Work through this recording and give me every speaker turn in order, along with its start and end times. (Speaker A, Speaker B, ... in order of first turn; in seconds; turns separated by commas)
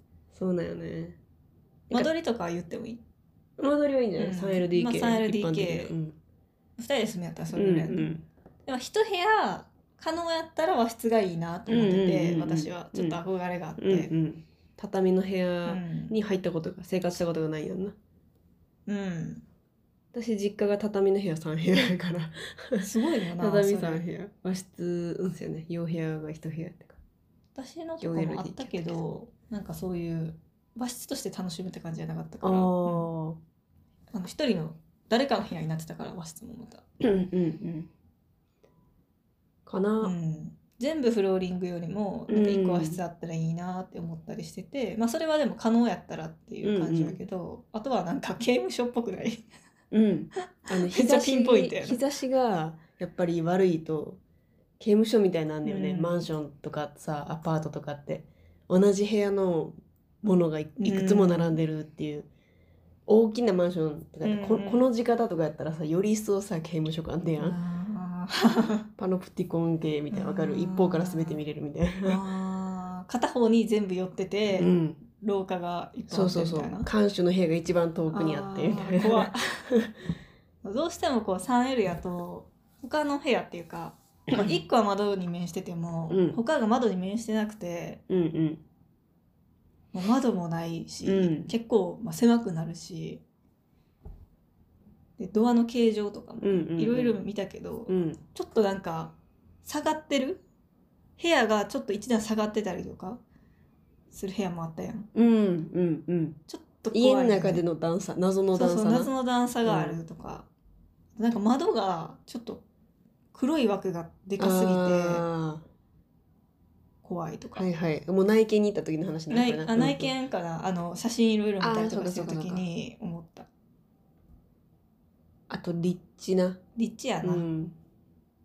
Speaker A: 0.3-1.2, Speaker B: 1.9-3.0, Speaker A: 3.6-6.2, Speaker B: 4.2-5.9, Speaker B: 6.8-8.1, Speaker A: 7.5-8.2, Speaker B: 8.7-14.1, Speaker A: 11.7-13.2, Speaker A: 13.8-17.9, Speaker B: 15.6-16.1, Speaker B: 18.9-19.4, Speaker A: 20.1-27.0, Speaker B: 22.8-24.0, Speaker B: 27.6-33.1, Speaker A: 28.0-29.0, Speaker A: 32.4-33.4, Speaker B: 34.1-36.8, Speaker A: 37.0-37.9, Speaker A: 39.6-40.1, Speaker B: 40.0-49.4, Speaker A: 42.3-43.0, Speaker A: 46.6-47.2, Speaker A: 49.9-54.2, Speaker B: 50.6-52.0, Speaker A: 54.8-62.3, Speaker B: 55.6-56.3, Speaker B: 60.8-61.6, Speaker A: 63.1-67.6, Speaker B: 64.2-64.8, Speaker B: 67.4-68.9, Speaker A: 69.0-72.2, Speaker B: 70.1-71.4, Speaker B: 72.0-76.9, Speaker A: 74.5-75.0, Speaker A: 76.1-79.9, Speaker B: 78.1-79.7, Speaker B: 80.6-88.0, Speaker A: 86.1-86.4, Speaker A: 88.1-88.6, Speaker B: 89.9-93.2, Speaker A: 91.0-91.5, Speaker B: 95.2-100.4, Speaker A: 96.4-97.2, Speaker A: 97.9-98.2, Speaker B: 101.2-103.2, Speaker B: 104.1-105.1, Speaker A: 105.1-106.4, Speaker B: 106.5-107.6, Speaker A: 106.9-109.1, Speaker B: 108.5-110.5, Speaker A: 109.6-110.0, Speaker B: 111.2-112.6, Speaker B: 113.3-115.2, Speaker A: 114.4-115.7, Speaker B: 117.0-117.7, Speaker A: 117.5-120.1, Speaker B: 119.3-123.5, Speaker A: 121.6-122.6, Speaker A: 125.5-126.6, Speaker B: 126.8-127.5, Speaker A: 127.2-127.7